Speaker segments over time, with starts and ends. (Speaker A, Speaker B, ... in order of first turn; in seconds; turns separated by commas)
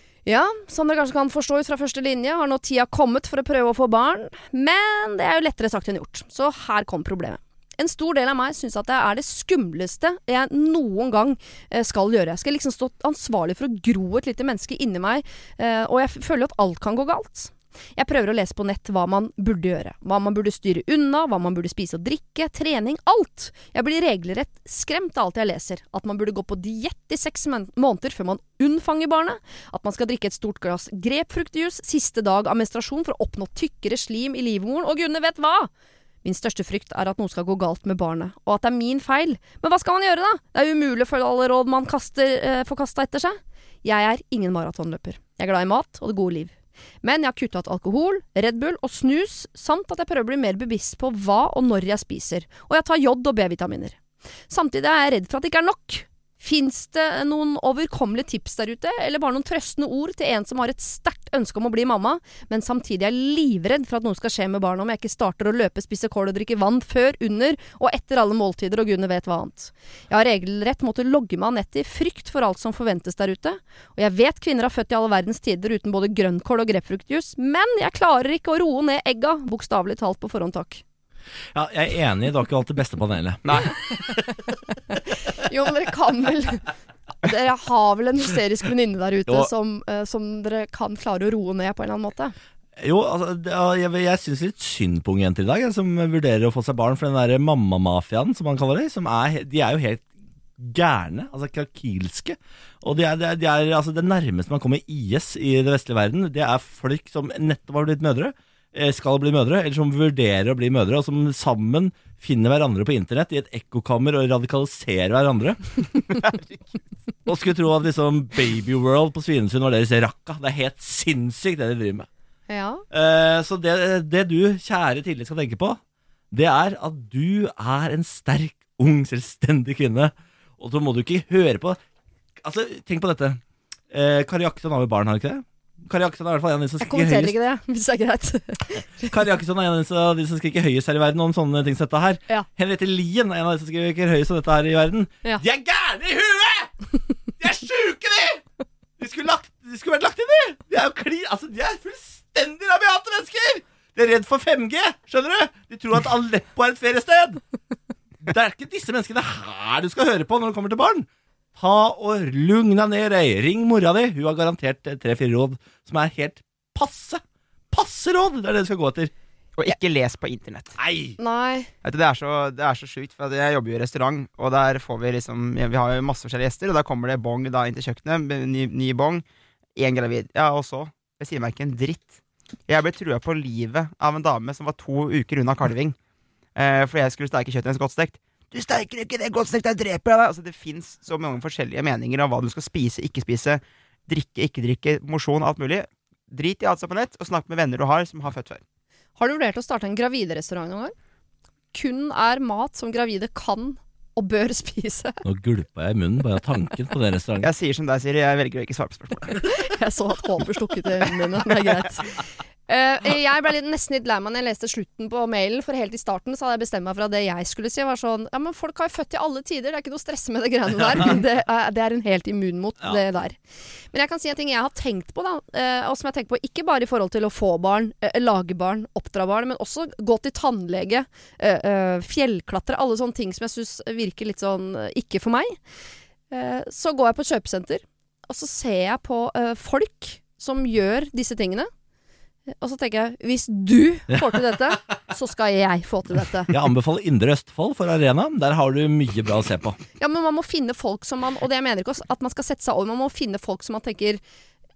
Speaker A: 0.2-35.7, Speaker A: 36.2-54.0, Speaker A: 54.5-80.8, Speaker B: 81.5-84.4, Speaker C: 83.4-83.7, Speaker A: 85.1-86.7, Speaker A: 87.2-92.3, Speaker B: 92.8-115.7, Speaker B: 117.2-122.1, Speaker A: 122.5-122.8, Speaker B: 122.9-125.8, Speaker B: 126.3-131.8, Speaker B: 132.4-137.3, Speaker A: 136.8-139.1, Speaker B: 139.0-146.7, Speaker B: 147.4-148.4, Speaker B: 149.0-157.4, Speaker B: 158.2-169.1, Speaker C: 169.6-170.8, Speaker B: 170.8-171.2, Speaker A: 171.2-171.7, Speaker C: 171.8-179.2, Speaker C: 179.8-182.1, Speaker C: 182.7-185.9, Speaker C: 186.5-198.6, Speaker A: 199.2-200.9, Speaker A: 201.7-205.2, Speaker B: 205.2-207.5, Speaker C: 207.4-209.4, Speaker A: 209.4-223.4, Speaker A: 223.9-235.6, Speaker A: 236.3-241.7, Speaker A: 242.6-246.5, Speaker B: 246.5-249.8, Speaker A: 250.0-254.2